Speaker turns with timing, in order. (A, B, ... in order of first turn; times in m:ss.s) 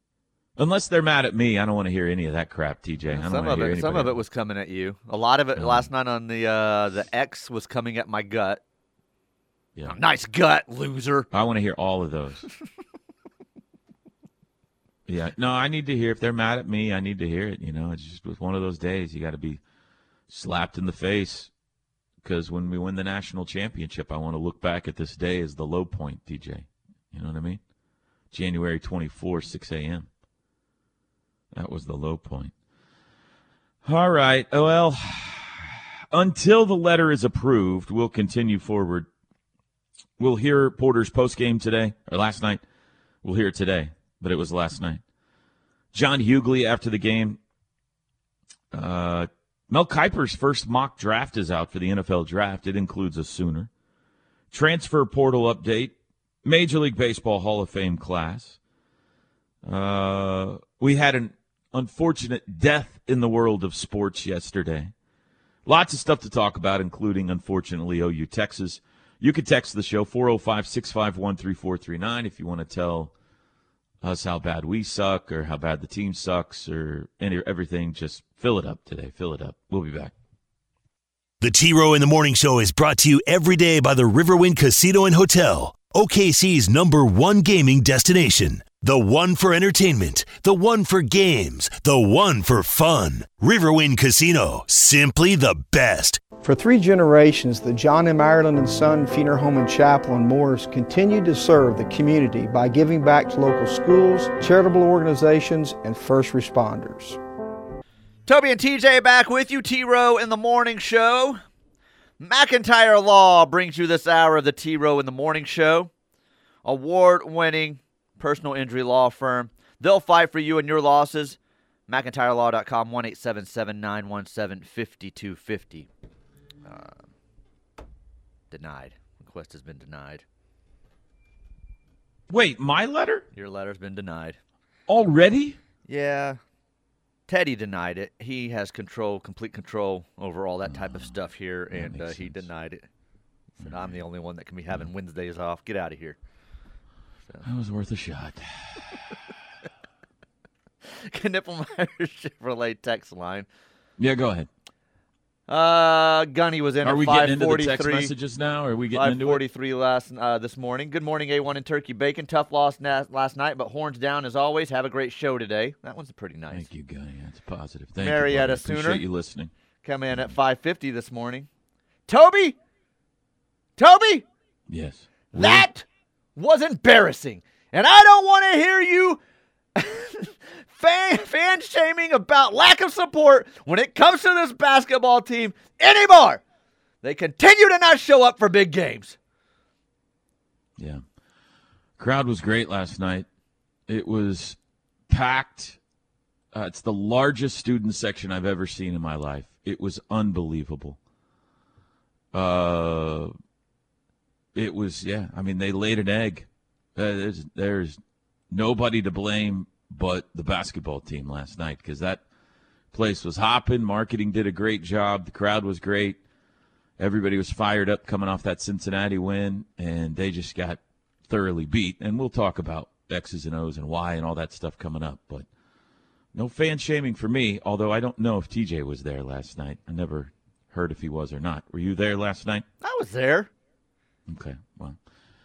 0:00.6-0:04.2 A
0:03.1-0:08.6 B
0:05.6-0:05.9 A
0:09.9-0:11.3 B
0:11.3-0:12.5 A
0:15.1-0:19.6 A
0:20.3-0:21.5 A
0:22.2-0:27.6 A
0:28.3-0:30.1 A
0:31.5-0:32.5 A
0:33.8-0:39.1 A
0:40.2-0:42.6 A
0:43.2-0:45.0 A
0:45.9-0:47.4 A
0:48.7-0:53.7 A
0:54.5-0:58.6 A
0:59.6-1:04.9 A
1:05.7-1:13.1 A
1:14.0-1:20.1 A
1:21.4-1:36.2 C
1:36.4-1:47.2 D
1:48.3-1:51.4 B
1:52.2-1:55.9 B
1:56.6-2:05.9 B
2:06.6-2:07.0 B
2:08.5-2:10.2 B
2:12.3-2:13.2 A
2:13.4-2:14.4 B
2:14.9-2:15.6 A
2:15.9-2:16.4 B
2:17.3-2:22.9 B
2:20.7-2:21.1 A
2:21.7-2:22.5 A
2:23.6-2:26.2 B
2:23.6-2:24.0 A
2:27.4-2:29.0 A
2:30.8-2:33.5 B
2:34.0-2:34.5 A
2:35.5-2:38.1 B
2:36.8-2:39.4 A
2:38.9-2:46.7 B
2:46.5-2:49.5 A
2:48.0-2:49.0 B
2:49.8-2:51.5 B
2:52.1-2:52.6 B
2:53.8-2:54.3 B
2:54.7-2:55.7 A
2:55.3-2:55.8 B
2:56.4-2:59.2 B
2:59.8-3:06.4 B
3:07.0-3:09.2 B
3:10.8-3:11.0 A
3:12.0-3:13.3 A
3:13.9-3:14.6 A
3:15.1-3:15.8 A
3:16.5-3:21.0 A
3:22.3-3:23.3 A
3:24.6-3:28.0 A
3:28.5-3:32.2 A
3:32.9-3:36.2 A
3:37.0-3:45.5 A
3:46.3-3:52.6 A
3:52.8-3:53.5 B
3:54.3-3:55.0 A